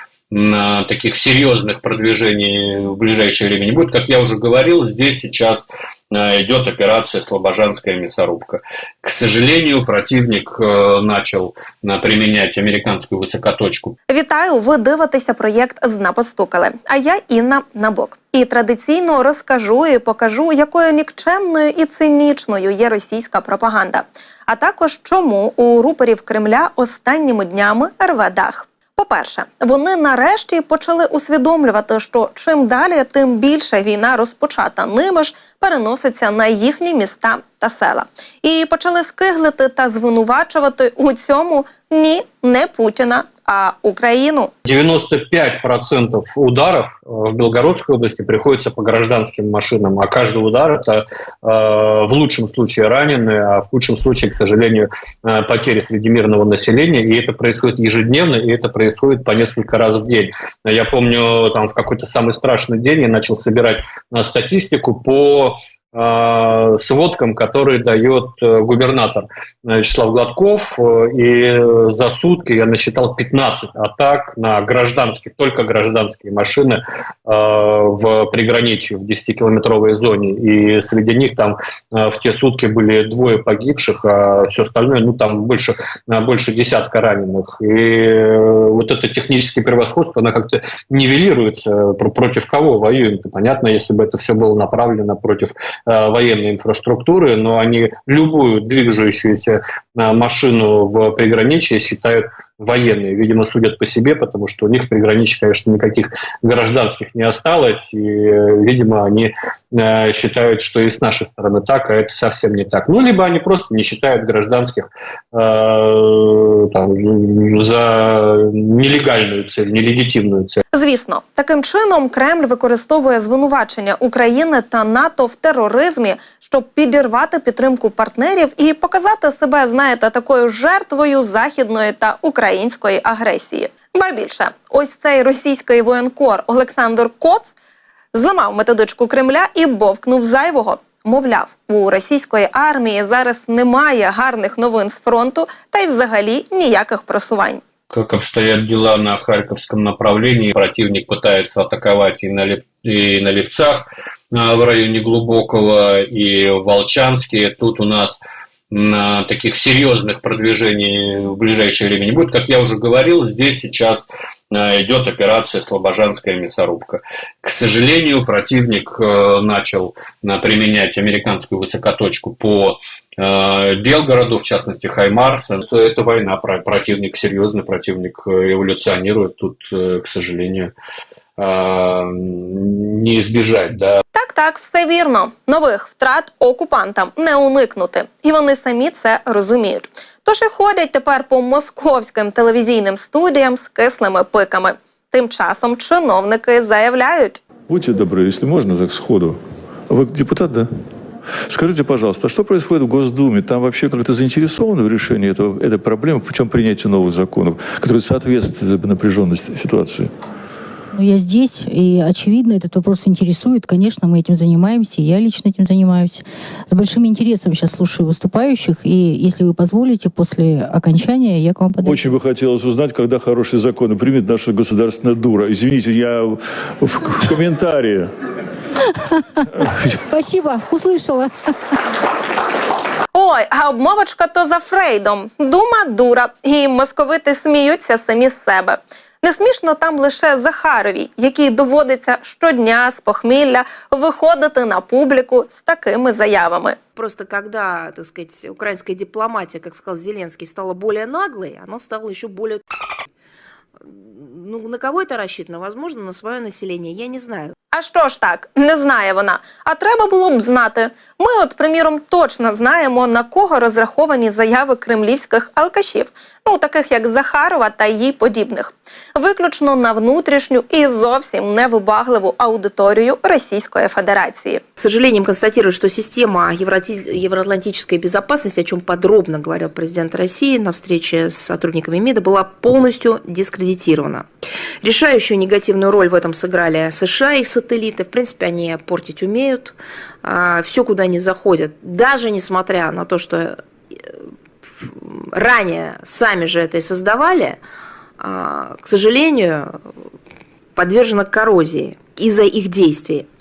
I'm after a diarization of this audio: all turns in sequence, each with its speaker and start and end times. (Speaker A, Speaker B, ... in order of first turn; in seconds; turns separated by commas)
Speaker A: 0.3-13.9, Speaker B: 14.1-44.5, Speaker A: 44.6-120.6, Speaker B: 120.7-137.6, Speaker B: 138.1-147.6, Speaker A: 147.9-158.2, Speaker A: 158.7-180.7, Speaker A: 181.4-183.9, Speaker B: 184.1-197.4, Speaker C: 197.7-199.4, Speaker C: 199.9-200.7, Speaker C: 201.5-210.1, Speaker D: 210.9-222.2, Speaker C: 221.8-228.1, Speaker C: 229.5-230.0, Speaker D: 230.1-231.3, Speaker B: 233.1-246.8, Speaker E: 246.9-252.6, Speaker E: 253.8-257.5, Speaker B: 257.7-274.6, Speaker E: 274.8-284.3, Speaker E: 284.8-294.1, Speaker E: 294.8-297.6, Speaker E: 298.2-299.8, Speaker E: 300.8-303.3